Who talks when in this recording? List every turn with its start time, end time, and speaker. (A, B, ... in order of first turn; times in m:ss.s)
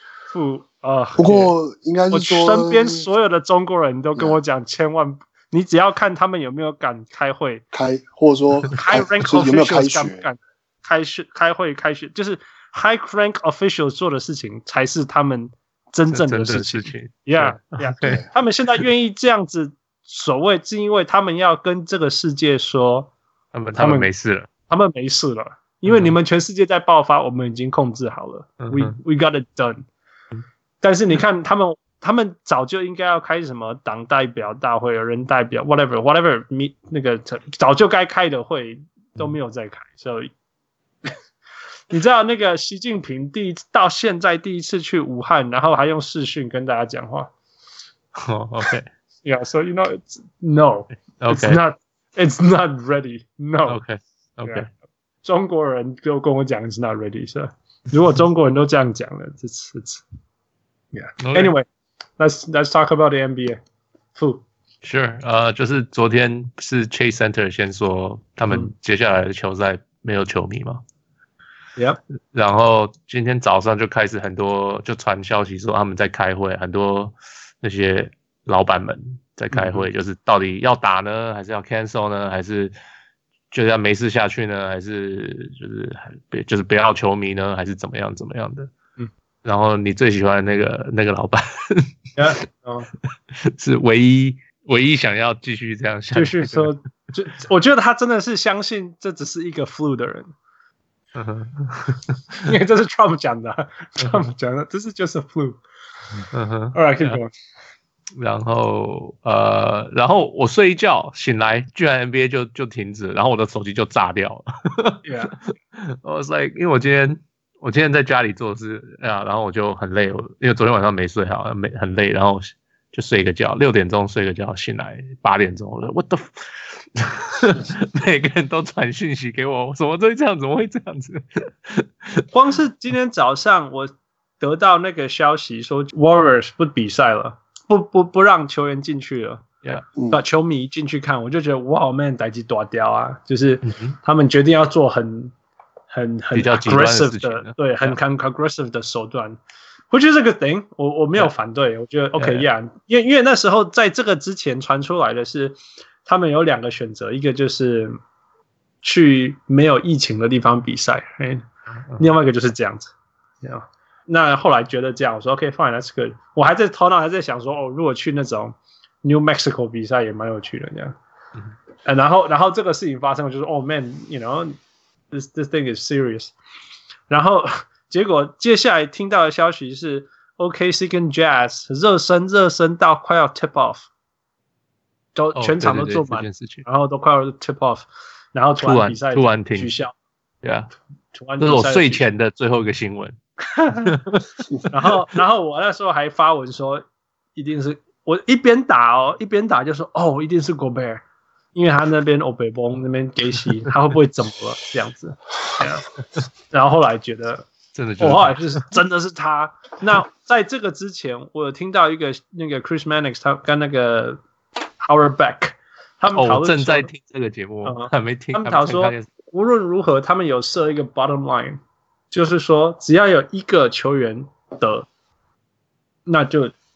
0:00.3-0:01.5 A
0:01.2-0:03.0 B
0:02.1-0:07.6 A
0:07.7-0:10.2 B
0:08.7-0:23.1 A
0:16.1-0:18.2 C
0:23.5-0:24.5 C
0:23.7-0:24.1 A
0:24.7-0:29.8 A
0:25.8-0:26.2 C
0:28.6-0:29.0 C
0:30.8-0:40.3 A
0:41.9-0:47.3 A
0:48.1-0:48.9 C
0:49.2-0:53.8 A
0:51.2-0:51.6 C
0:53.7-0:54.6 C
0:55.2-1:00.0 A
1:00.9-1:01.6 A
1:01.2-1:01.5 C
1:02.2-1:03.6 A
1:04.2-1:04.4 A
1:04.8-1:10.8 C
1:12.3-1:22.7 C
1:19.5-1:19.9 A
1:23.5-1:28.7 C
1:29.4-1:31.9 C
1:32.2-1:32.9 A
1:33.4-1:36.7 C
1:36.1-1:40.3 A
1:41.1-1:42.5 C
1:42.4-1:45.6 A
1:46.3-1:47.2 C
1:46.7-1:47.3 A
1:48.2-2:12.2 C
1:55.0-1:55.3 A
2:12.3-2:19.5 A
2:20.1-2:25.3 A
2:23.6-2:24.0 C
2:25.9-2:29.4 A
2:26.3-2:27.9 C
2:29.9-2:38.0 A
2:32.2-2:32.5 C
2:38.8-2:41.5 A
2:42.0-2:42.9 A
2:43.4-2:50.9 A
2:51.8-2:54.6 A
2:55.1-2:56.3 A
2:57.1-3:03.9 A
3:05.1-3:09.9 A
3:05.4-3:06.6 C
3:08.6-3:09.7 C
3:10.4-3:10.7 C
3:11.1-3:12.0 A
3:11.4-3:13.2 C
3:13.6-3:13.9 A
3:13.8-3:14.4 C
3:14.7-3:16.8 A
3:17.4-3:21.0 A
3:21.5-3:25.9 A
3:26.5-3:27.5 A
3:27.7-3:28.7 C
3:28.0-3:34.2 A
3:34.8-3:36.9 A
3:36.1-3:39.0 C
3:37.6-3:44.8 A
3:46.1-3:46.5 A